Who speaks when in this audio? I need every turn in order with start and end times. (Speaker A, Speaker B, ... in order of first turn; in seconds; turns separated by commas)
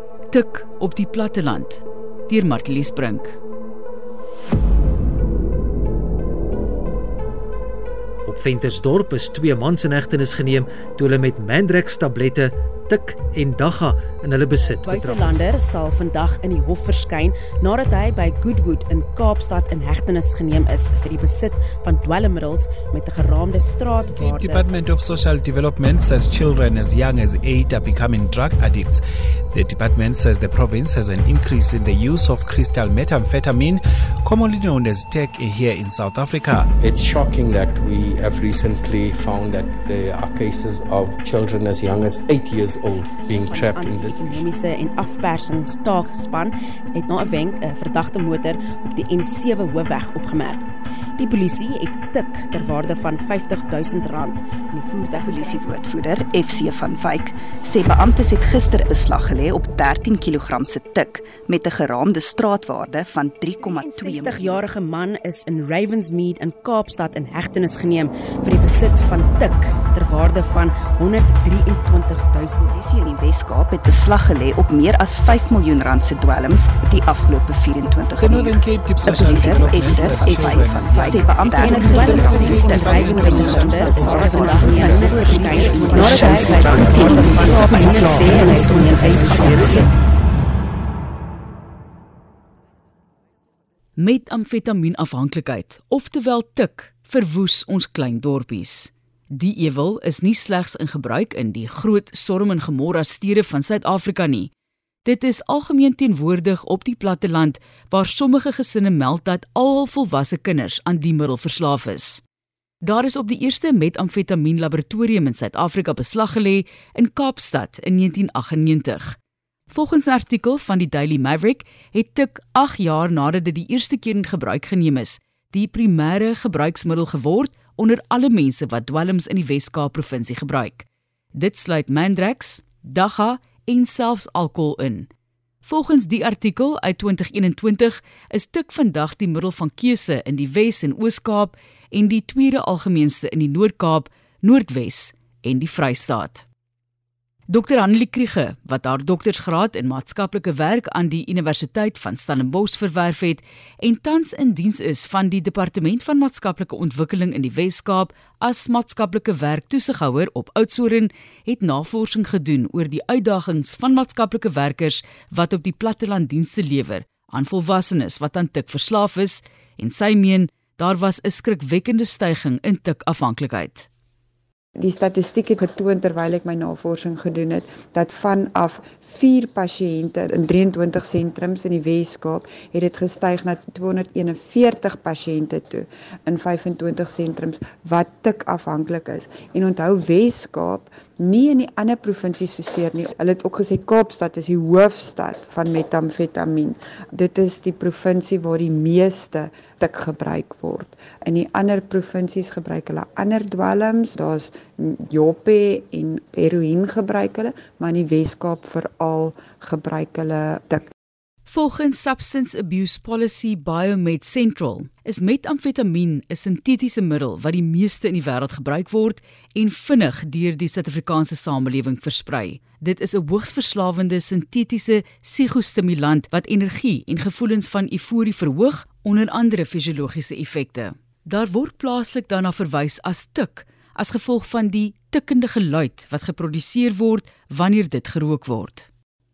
Speaker A: 0.3-3.4, Speaker B: 8.3-15.4, Speaker C: 14.7-25.1, Speaker D: 24.1-29.0, Speaker D: 29.5-36.7, Speaker E: 36.8-44.4, Speaker C: 43.2-50.7, Speaker C: 51.2-55.9, Speaker F: 55.2-64.6, Speaker C: 63.6-72.7, Speaker F: 72.6-89.8, Speaker D: 78.2-87.8, Speaker C: 81.1-89.9, Speaker D: 88.8-89.5, Speaker A: 94.0-104.5, Speaker A: 105.0-112.2, Speaker A: 112.8-119.2, Speaker A: 119.7-135.1, Speaker A: 135.7-146.4, Speaker A: 147.5-173.9, Speaker G: 174.8-210.9, Speaker A: 211.5-238.9